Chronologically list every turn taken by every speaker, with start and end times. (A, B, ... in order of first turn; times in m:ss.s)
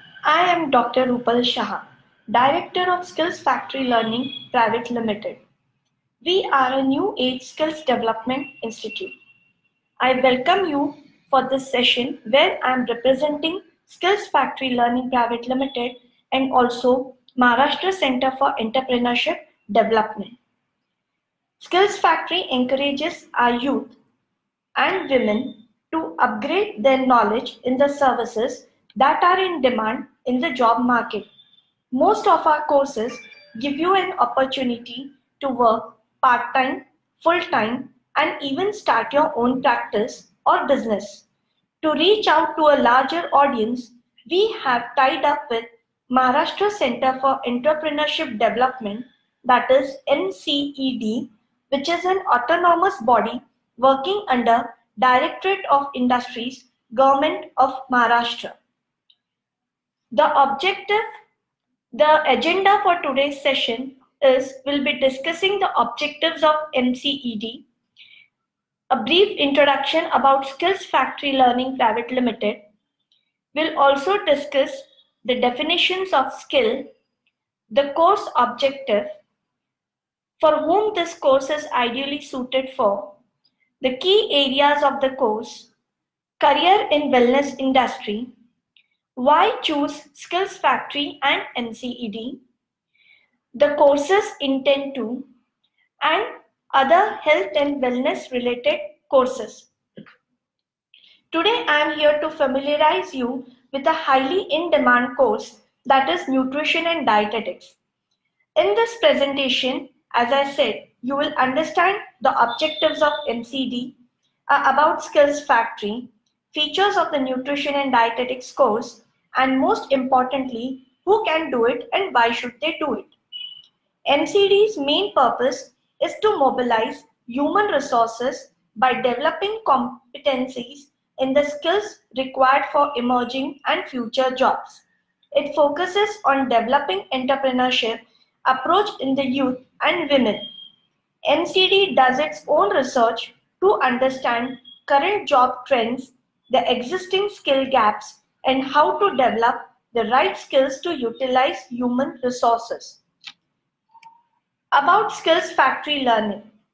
0:00.2-0:05.4 A
0:06.2-0:09.2 A
0:10.0-0:20.4 A
0:21.6-0:24.0 A
0:24.8-0:31.3 A
0:31.9-0:41.3 A
0:41.8-0:58.6 A
1:00.1-1:01.1 A
1:01.9-1:07.7 A
1:08.9-1:12.6 A
1:13.5-1:16.9 A
1:17.7-1:19.2 A
1:20.4-1:23.2 A
1:23.8-1:25.7 A
1:26.4-1:28.3 A
1:29.2-1:32.4 A
1:33.6-1:35.3 A
1:36.0-1:39.7 A
1:41.3-1:47.8 A
1:48.6-1:54.0 A
1:54.5-2:03.1 A
2:04.1-2:20.5 A
2:21.3-2:33.0 A
2:34.7-2:36.5 A